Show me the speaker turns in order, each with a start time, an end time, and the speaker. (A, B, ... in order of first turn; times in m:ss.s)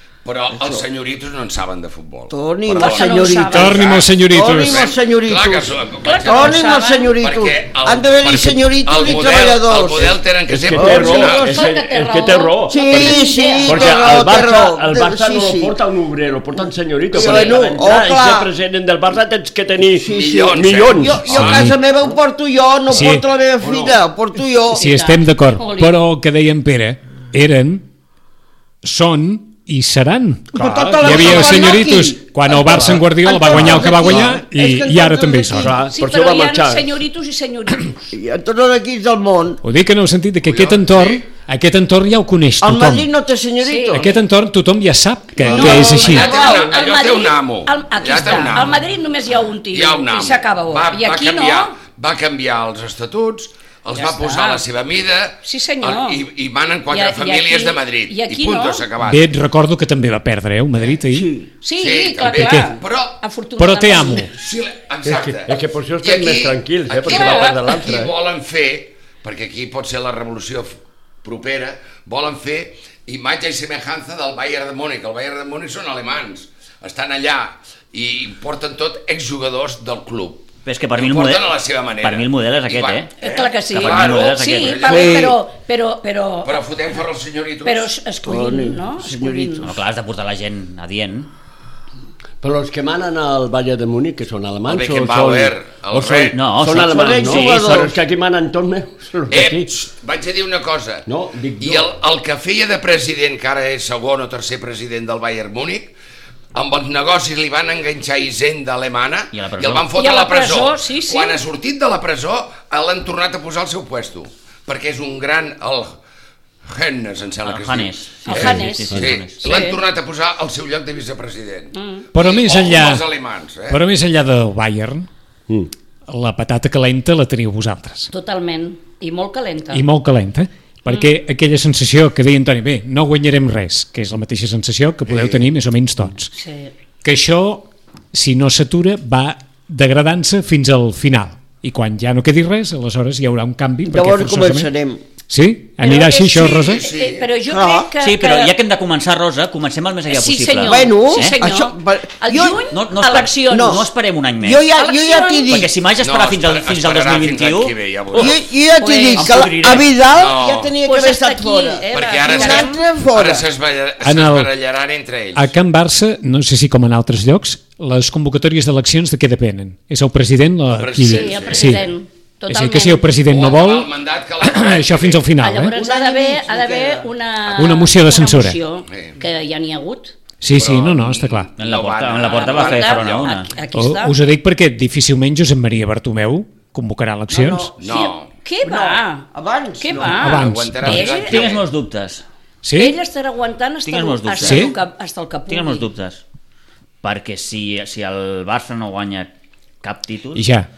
0:00.2-0:11.7 A
0:00.5-0:00.8 B
0:02.3-0:10.2 B
0:02.8-0:03.9 C
0:03.5-0:04.9 D
0:06.0-0:07.1 C
0:10.5-0:21.4 E
0:10.7-0:11.2 B
0:11.0-0:14.1 C
0:12.7-0:15.8 B
0:17.1-0:18.5 B
0:17.1-0:17.8 C
0:20.0-0:24.9 B
0:20.0-0:21.8 A
0:21.3-0:21.8 D
0:22.9-0:23.2 D
0:24.7-0:27.9 D
0:24.7-0:26.0 C
0:28.8-0:35.8 D
0:30.5-0:35.8 B
0:30.6-0:31.8 E
0:32.6-0:34.4 E
0:35.6-0:36.9 E
0:35.9-0:38.0 C
0:38.1-0:39.6 B
0:39.6-0:43.1 D
0:40.4-0:41.3 A
0:42.6-0:44.1 B
0:43.6-0:44.1 C
0:43.9-0:46.3 D
0:45.4-0:46.8 B
0:45.5-0:51.8 C
0:45.8-0:48.8 A
0:49.7-0:59.3 A
0:53.9-0:54.6 C
0:55.4-0:56.2 C
0:56.9-0:58.9 C
0:59.0-1:01.4 D
1:01.1-1:01.5 B
1:01.6-1:04.3 C
1:01.8-1:03.2 A
1:02.3-1:02.7 D
1:03.6-1:04.3 D
1:04.3-1:25.3 A
1:05.0-1:08.1 E
1:07.1-1:07.7 C
1:20.6-1:23.1 F
1:23.2-1:26.6 C
1:23.7-1:24.9 F
1:24.9-1:25.2 B
1:26.4-1:27.9 A
1:27.6-1:29.7 C
1:28.2-1:29.8 B
1:29.6-1:31.3 F
1:32.4-1:39.7 E
1:34.7-1:36.4 A
1:36.3-1:37.9 F
1:36.7-1:38.0 B
1:39.3-1:41.1 A
1:41.1-1:41.9 E
1:41.6-1:45.9 A
1:46.5-1:56.0 A
1:49.3-1:49.9 F
1:49.9-1:51.4 C
1:56.6-2:03.8 A
1:57.4-1:59.6 F
1:58.3-1:59.8 C
2:01.7-2:02.1 C
2:02.1-2:03.0 D
2:03.7-2:05.1 D
2:06.1-2:08.1 D
2:08.1-2:09.9 C
2:09.7-2:16.3 D
2:10.9-2:11.1 C
2:15.1-2:15.4 E
2:16.3-2:16.7 C
2:17.0-2:24.7 D
2:23.8-2:25.0 B
2:25.3-2:26.8 D
2:25.8-2:28.5 C
2:26.3-2:27.3 A
2:27.5-2:27.9 B
2:28.0-2:31.4 F
2:30.1-2:33.8 C
2:30.7-2:32.6 B
2:32.7-2:34.7 F
2:33.5-2:33.9 B
2:34.4-2:35.7 B
2:34.8-2:35.6 C
2:35.5-2:38.3 F
2:36.0-2:38.4 A
2:38.2-2:43.5 B
2:38.8-2:39.6 C
2:39.2-2:39.9 F
2:40.1-2:40.7 A
2:40.8-2:42.8 C
2:41.9-2:45.5 A
2:44.0-2:44.5 D
2:45.4-2:51.8 D
2:50.7-2:51.9 A
2:51.0-2:53.1 C
2:52.5-2:53.9 D
2:53.3-2:55.3 A
2:54.4-2:55.7 D
2:55.4-3:00.2 C
2:55.8-2:57.1 B
2:57.6-2:58.6 D
2:58.9-2:59.2 A
3:00.4-3:01.5 D
3:00.5-3:03.4 A
3:01.6-3:03.5 F
3:02.3-3:04.2 C
3:03.7-3:07.7 D
3:07.3-3:07.7 B
3:07.8-3:08.3 A
3:07.8-3:09.3 C
3:08.6-3:10.3 B
3:09.8-3:11.5 C
3:10.2-3:11.1 D
3:10.2-3:11.6 A
3:11.0-3:12.2 F
3:12.6-3:13.0 D
3:12.8-3:15.9 C
3:13.8-3:14.7 F
3:14.4-3:14.8 D
3:15.5-3:16.2 F
3:17.0-3:19.3 F
3:19.8-3:20.5 F
3:20.4-3:20.7 D